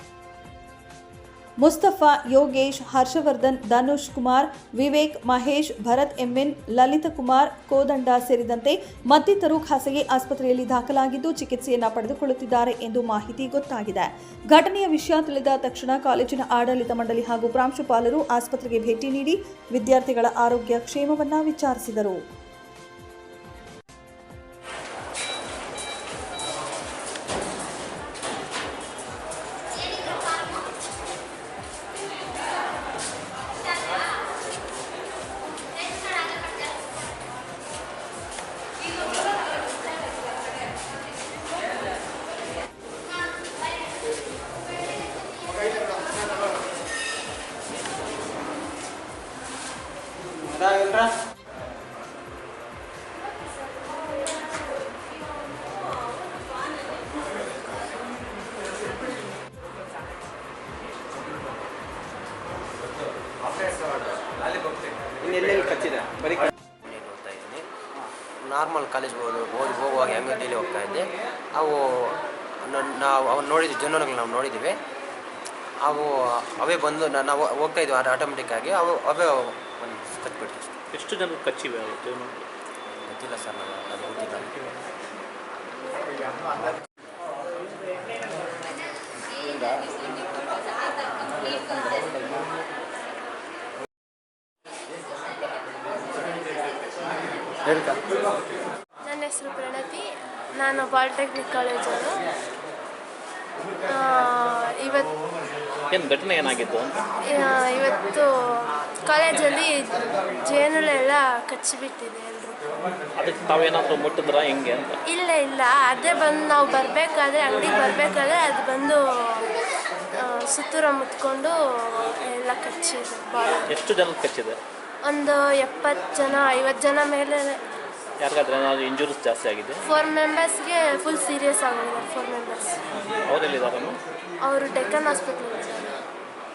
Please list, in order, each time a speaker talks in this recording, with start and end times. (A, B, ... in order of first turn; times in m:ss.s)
0:01.6-0:22.2 A
0:50.6-0:51.0 B
1:03.5-1:04.3 B
1:05.2-1:07.6 B
1:08.5-1:14.8 B
1:15.8-1:20.7 B
1:20.9-1:22.4 C
1:23.1-1:24.6 B
1:39.0-1:42.2 D
1:43.8-1:45.1 D
1:45.9-1:47.0 C
1:47.3-1:52.6 D
1:53.2-1:55.0 C
1:55.1-1:59.5 D
2:00.1-2:03.7 D
2:03.7-2:04.6 C
2:05.0-2:07.6 D
2:08.2-2:09.8 C
2:09.8-2:12.8 D
2:13.2-2:14.0 C
2:14.4-2:16.0 D